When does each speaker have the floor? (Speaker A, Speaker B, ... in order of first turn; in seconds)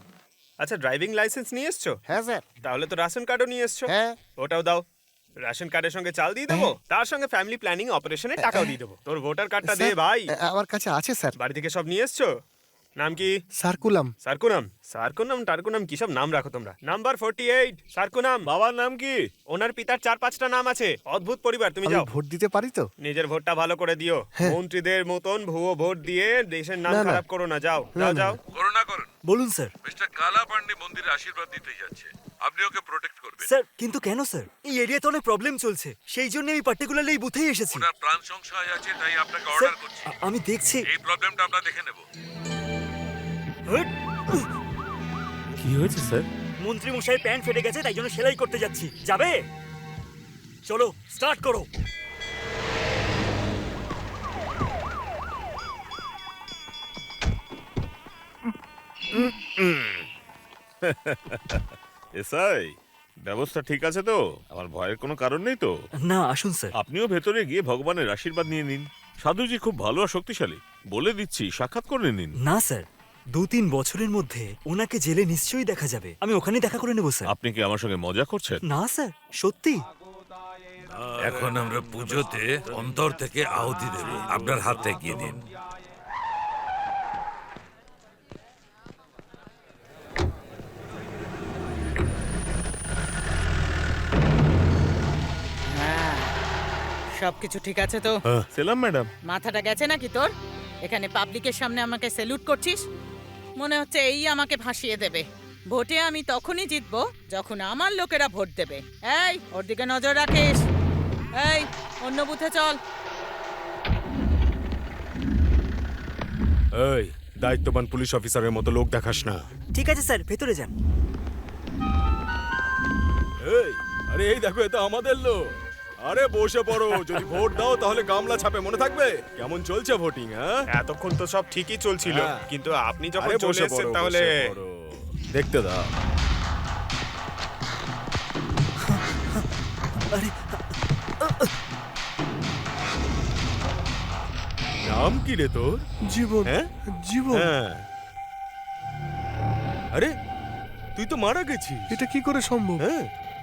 Speaker A: 0.6-2.0, 2.6-4.8, 5.4-10.3, 11.4-12.3, 13.0-13.3, 14.2-18.5, 19.5-22.1, 23.0-28.4, 130.7-134.5
Speaker B: 2.1-2.5, 3.9-4.2, 8.4-8.8, 9.6-11.4, 13.6-14.1, 21.9-22.9, 26.9-27.2, 27.9-28.4, 146.1-147.5, 151.9-152.8
Speaker C: 18.5-19.1, 45.6-46.3, 59.1-60.1, 60.8-61.7, 62.2-62.7, 63.2-65.7, 66.8-72.3, 77.3-78.6, 98.5-99.1
Speaker D: 28.6-29.1, 29.9-33.5, 37.8-40.1, 40.9-42.0, 81.2-85.4
Speaker E: 29.2-29.7, 33.4-37.9, 39.5-40.9, 46.6-49.4, 50.7-51.7, 66.0-66.7, 72.4-77.3, 78.7-79.8, 119.7-120.7, 138.9-139.4, 140.1-140.6, 141.2-141.5
Speaker F: 95.8-96.3, 97.2-98.2, 99.3-100.3, 100.8-102.8, 103.6-110.6, 111.4-112.8
Speaker G: 116.8-119.5, 123.4-125.5, 126.0-130.6, 132.0-132.5, 133.2-135.9, 144.8-145.8, 147.3-147.8, 151.0-152.0, 152.8-153.1